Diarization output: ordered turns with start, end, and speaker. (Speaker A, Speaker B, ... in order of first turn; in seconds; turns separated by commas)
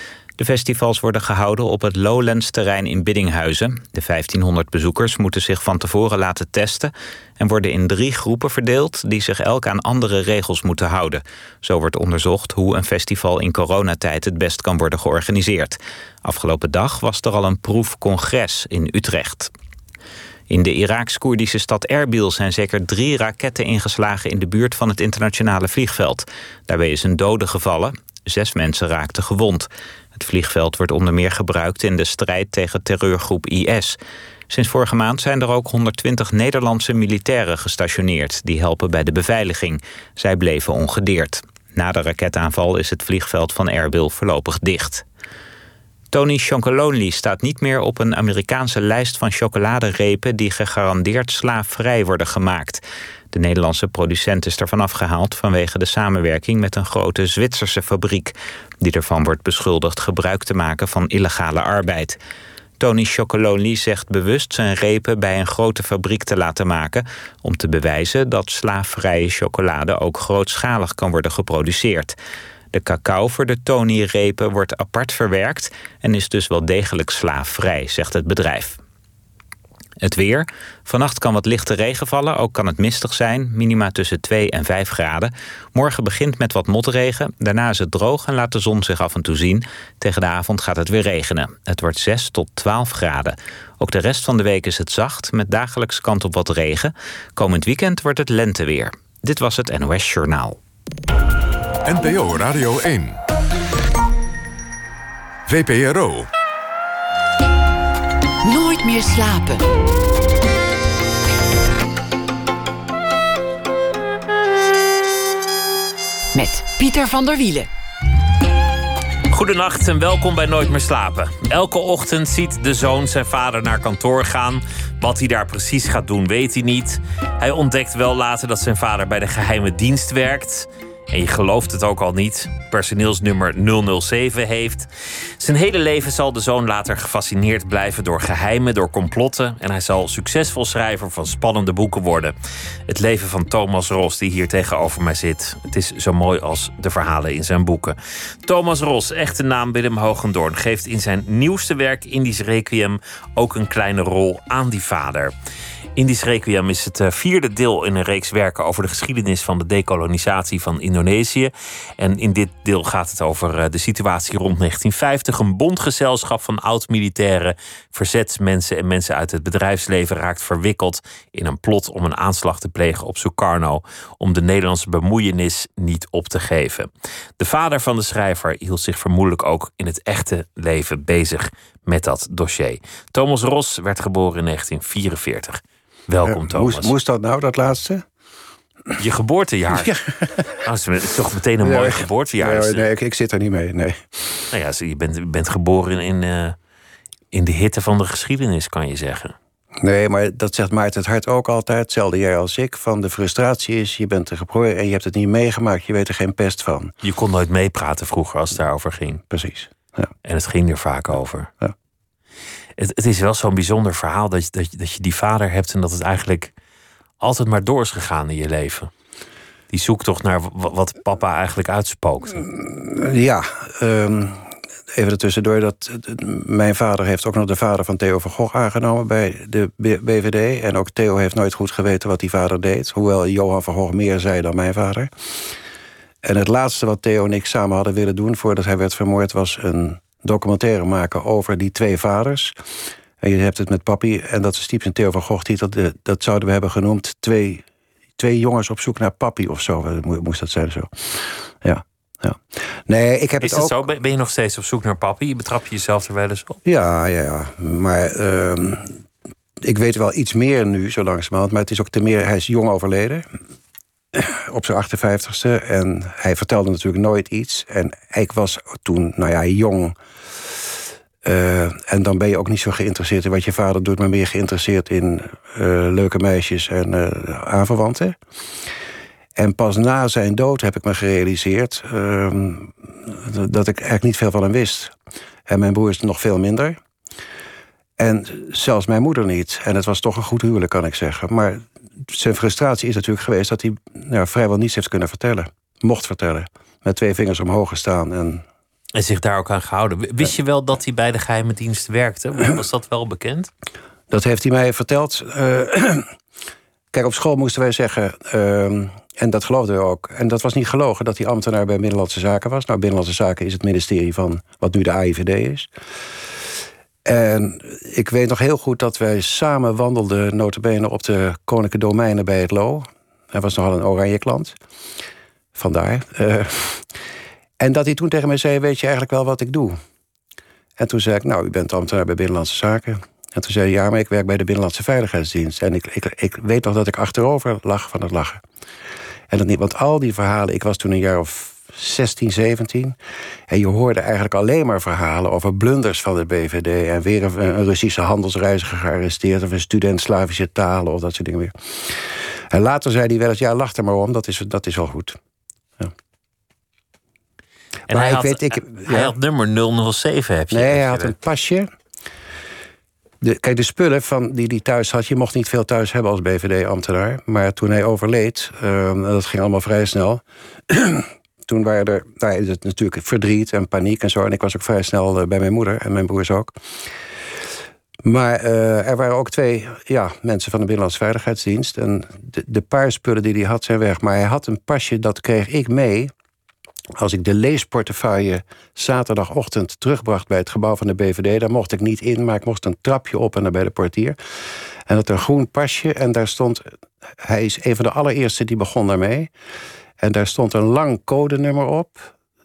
Speaker A: 0.4-19.5, Speaker A: 20.5-34.0, Speaker A: 34.5-45.0, Speaker A: 46.1-62.2, Speaker A: 62.8-72.2, Speaker A: 72.7-78.8, Speaker A: 80.0-100.6, Speaker B: 101.8-103.2, Speaker B: 105.5-106.3, Speaker C: 108.4-109.7, Speaker C: 116.3-117.7, Speaker D: 119.3-142.3, Speaker D: 142.9-155.3, Speaker D: 156.0-186.9, Speaker E: 186.2-188.0, Speaker D: 189.0-189.9, Speaker E: 189.7-190.5, Speaker D: 190.6-192.9, Speaker E: 191.6-194.1, Speaker D: 194.5-196.6, Speaker D: 197.3-199.3, Speaker E: 199.8-206.9, Speaker D: 207.0-209.2, Speaker E: 209.3-210.1, Speaker D: 210.2-211.5, Speaker D: 212.8-216.5, Speaker D: 217.2-218.9, Speaker D: 219.7-222.5, Speaker E: 222.5-235.1, Speaker E: 236.2-242.6, Speaker E: 243.2-247.6, Speaker E: 248.2-253.8, Speaker D: 253.4-256.6, Speaker E: 256.6-259.0, Speaker E: 259.6-263.3, Speaker E: 264.1-270.0, Speaker E: 271.2-278.2, Speaker E: 279.4-284.9, Speaker E: 285.5-286.8, Speaker E: 288.0-298.4, Speaker D: 298.9-303.5, Speaker E: 304.1-306.1, Speaker E: 306.9-315.7, Speaker E: 317.1-324.6, Speaker E: 325.6-326.9, Speaker E: 327.6-329.8, Speaker E: 330.8-338.4, Speaker E: 339.3-343.0, Speaker E: 343.5-355.2, Speaker D: 357.9-361.1, Speaker E: 357.9-359.1, Speaker E: 360.5-361.7, Speaker E: 363.2-376.6, Speaker E: 378.0-386.1, Speaker E: 387.0-394.2, Speaker E: 394.9-396.7, Speaker E: 397.2-399.3, Speaker E: 400.0-402.1